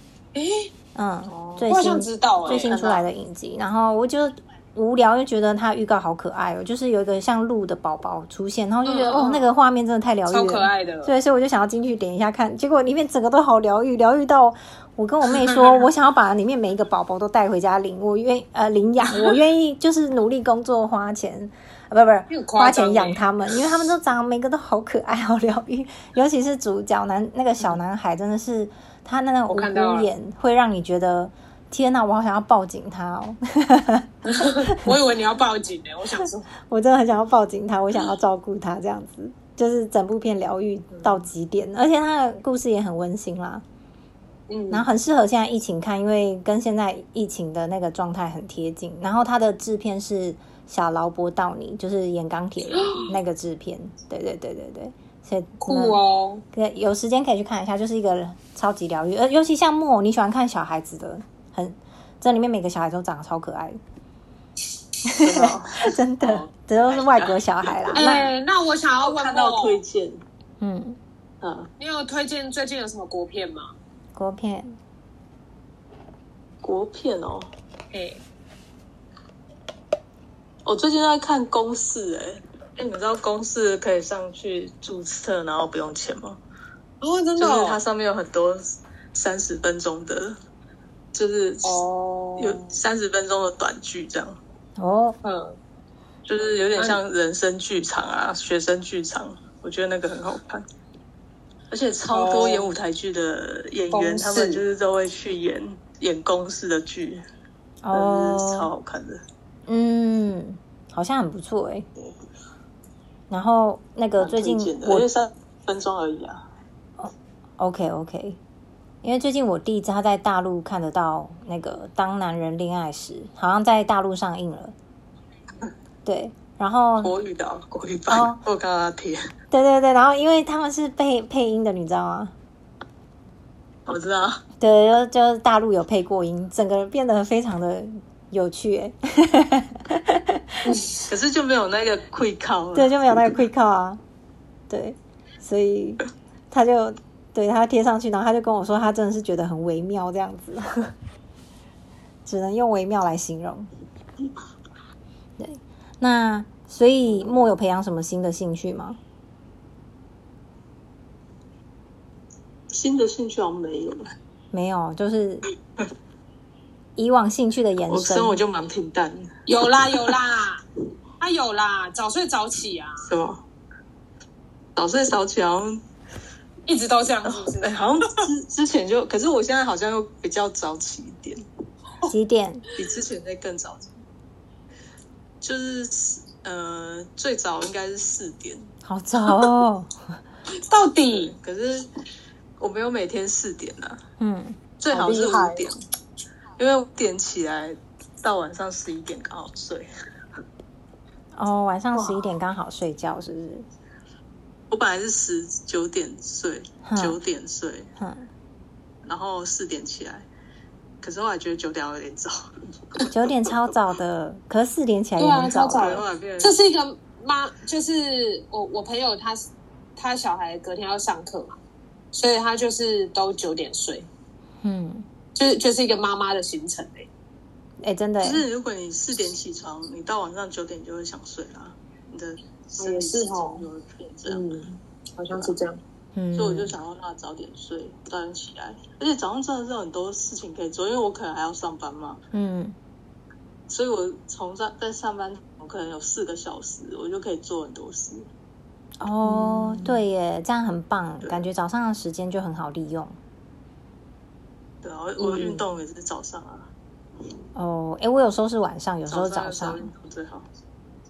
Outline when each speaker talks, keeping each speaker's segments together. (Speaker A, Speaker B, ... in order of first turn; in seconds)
Speaker A: 0.3-0.7, 1.7-3.0, 8.8-9.5, 10.3-11.1, 22.3-23.2, 29.5-30.1, 34.2-36.5, 44.5-44.9, 52.7-53.1, 55.6-56.4, 67.9-69.8, 71.8-73.7, 77.9-78.2, 87.0-87.8, 91.6-92.7, 95.2-95.6, 96.7-97.0, 102.1-102.7, 103.9-104.6, 140.7-141.0, 169.5-170.6, 171.2-173.0, 176.7-178.2, 190.5-191.3, 194.9-195.7, 215.2-221.6, 222.1-224.1, 225.3-227.1, 232.8-233.7, 234.2-235.8, 255.2-255.6
Speaker B: 0.9-34.9, 36.7-43.6, 44.7-56.0, 56.5-63.8, 65.0-68.3, 70.6-71.0, 74.2-74.8, 94.8-95.2, 107.8-108.7, 109.7-111.8, 113.3-115.1, 117.0-118.4, 119.0-124.7, 126.0-127.1, 128.1-128.4, 129.5-132.3, 134.6-140.8, 142.7-144.0, 144.7-150.9, 152.2-153.7, 155.4-159.0, 164.5-165.4, 166.9-168.4, 182.1-182.6, 188.8-189.9, 194.2-194.6, 201.3-203.6, 206.8-207.2, 208.0-208.3, 213.1-215.9, 224.6-225.1, 227.8-228.4, 236.1-236.7, 242.3-242.8, 249.0-253.2, 257.5-259.9
Speaker C: 1.3-1.7, 2.5-3.0, 65.2-68.1, 69.0-70.2, 71.4-71.7, 76.6-77.5, 80.6-86.4, 87.4-90.4, 91.1-91.8, 92.4-94.4, 96.2-100.6, 101.7-107.2, 107.9-109.2, 114.2-116.4, 127.0-129.3, 133.9-134.4, 141.0-143.1, 162.7-164.1, 167.9-169.3, 173.1-173.4, 174.8-175.8, 177.2-181.4, 182.7-183.9, 185.4-188.7, 191.2-191.9, 192.6-194.0, 194.8-195.8, 196.6-199.9, 204.7-207.9, 209.0-210.2, 211.0-212.4, 215.7-216.6, 228.2-234.6, 236.3-242.2, 243.7-248.3, 249.2-250.0, 254.8-256.7, 259.1-260.5